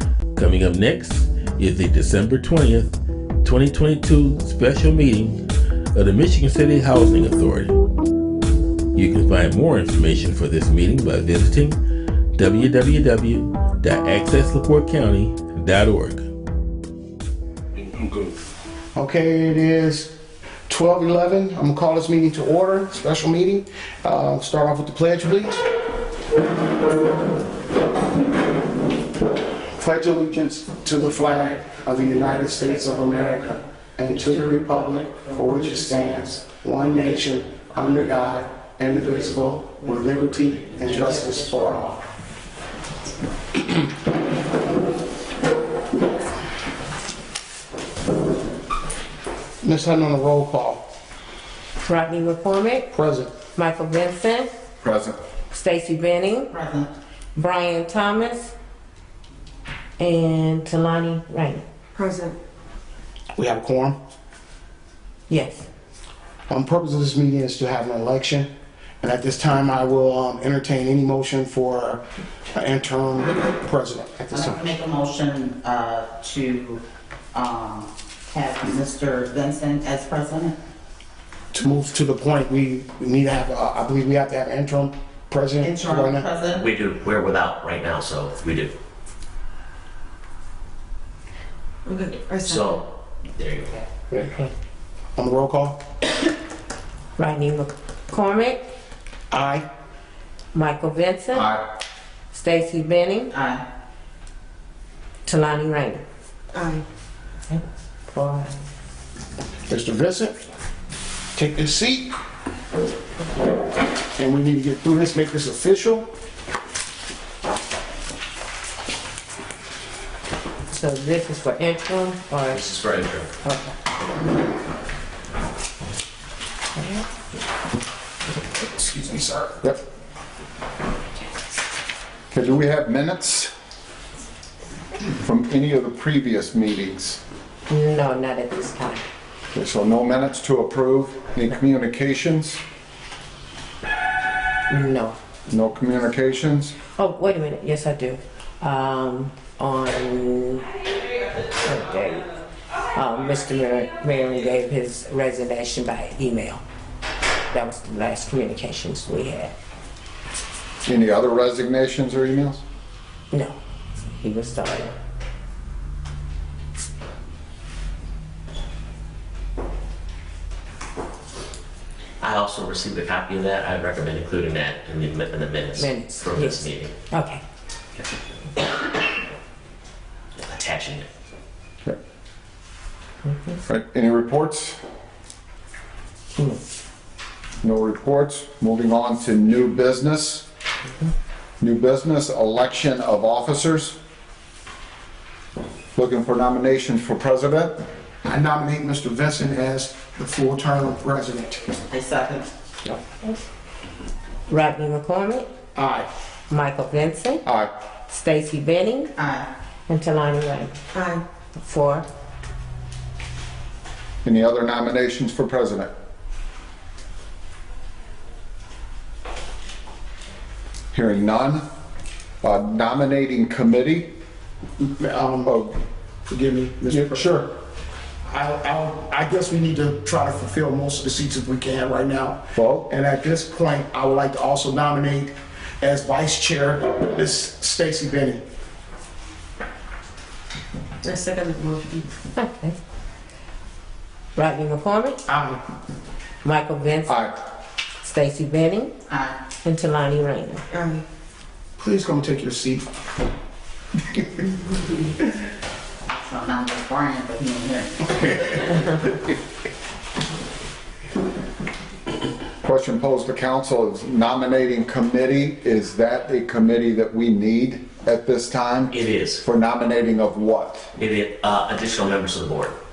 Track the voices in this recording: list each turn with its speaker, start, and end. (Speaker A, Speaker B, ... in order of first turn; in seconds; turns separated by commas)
Speaker A: 0.3-2.9, Speaker A: 3.4-5.4, Speaker A: 5.9-7.7, Speaker A: 8.9-11.8, Speaker A: 12.3-16.2, Speaker B: 18.9-20.1, Speaker B: 20.7-25.6, Speaker B: 29.8-42.0, Speaker B: 43.6-43.8, Speaker B: 49.6-50.8, Speaker C: 51.8-52.9, Speaker B: 52.9-53.3, Speaker C: 53.4-54.5, Speaker D: 54.8-55.2, Speaker C: 55.5-56.5, Speaker E: 56.5-56.9, Speaker C: 57.3-58.5, Speaker C: 60.0-61.6, Speaker F: 62.0-62.4, Speaker B: 63.4-64.0, Speaker C: 65.3-65.7, Speaker B: 66.5-68.5, Speaker B: 69.0-72.0, Speaker B: 72.5-74.6, Speaker E: 74.3-76.8, Speaker E: 77.3-80.5, Speaker B: 81.5-86.3, Speaker E: 85.6-86.7, Speaker G: 86.5-88.7, Speaker F: 91.9-92.7, Speaker G: 92.4-93.8, Speaker B: 95.2-95.8, Speaker C: 97.2-98.6, Speaker B: 99.3-99.7, Speaker C: 100.5-101.5, Speaker D: 101.3-101.6, Speaker C: 102.3-103.3, Speaker E: 103.3-103.6, Speaker C: 105.2-106.0, Speaker F: 106.5-106.8, Speaker C: 107.5-108.6, Speaker B: 109.7-110.3, Speaker B: 111.3-112.2, Speaker B: 114.2-116.1, Speaker C: 120.7-122.7, Speaker G: 122.5-123.3, Speaker C: 123.4-123.8, Speaker C: 126.8-127.0, Speaker B: 128.7-129.6, Speaker D: 132.3-133.5, Speaker D: 135.2-137.2, Speaker C: 137.7-139.0, Speaker D: 139.5-142.6, Speaker C: 144.7-145.2, Speaker D: 145.5-146.7, Speaker C: 147.0-150.7, Speaker C: 151.6-152.3, Speaker C: 152.9-156.6, Speaker C: 157.5-159.5, Speaker D: 160.8-162.6, Speaker C: 163.3-163.6, Speaker C: 164.1-164.9, Speaker G: 172.2-176.9, Speaker C: 175.8-177.4, Speaker G: 180.4-181.1, Speaker D: 183.7-184.8, Speaker D: 187.6-190.4, Speaker D: 191.6-194.0, Speaker D: 196.0-197.8, Speaker B: 198.2-201.6, Speaker E: 201.9-202.5, Speaker C: 202.8-203.4, Speaker C: 204.5-205.5, Speaker B: 205.8-206.1, Speaker C: 206.5-207.4, Speaker D: 207.4-207.7, Speaker C: 208.1-209.1, Speaker E: 209.2-209.5, Speaker C: 209.9-210.7, Speaker F: 210.9-211.2, Speaker C: 211.6-212.1, Speaker D: 214.2-215.9, Speaker D: 220.9-221.6, Speaker D: 222.4-224.1, Speaker B: 224.8-225.7, Speaker B: 226.3-227.5, Speaker D: 226.9-227.4, Speaker B: 228.3-238.4, Speaker D: 232.6-232.9, Speaker F: 241.0-242.1, Speaker C: 242.3-242.8, Speaker C: 244.3-245.2, Speaker B: 245.3-245.6, Speaker C: 246.4-247.2, Speaker D: 247.1-247.3, Speaker C: 248.0-248.9, Speaker E: 249.1-249.4, Speaker C: 249.6-250.6, Speaker F: 250.7-251.0, Speaker B: 251.8-252.8, Speaker E: 256.1-258.8, Speaker D: 262.6-270.9, Speaker G: 268.9-269.4, Speaker G: 271.0-272.7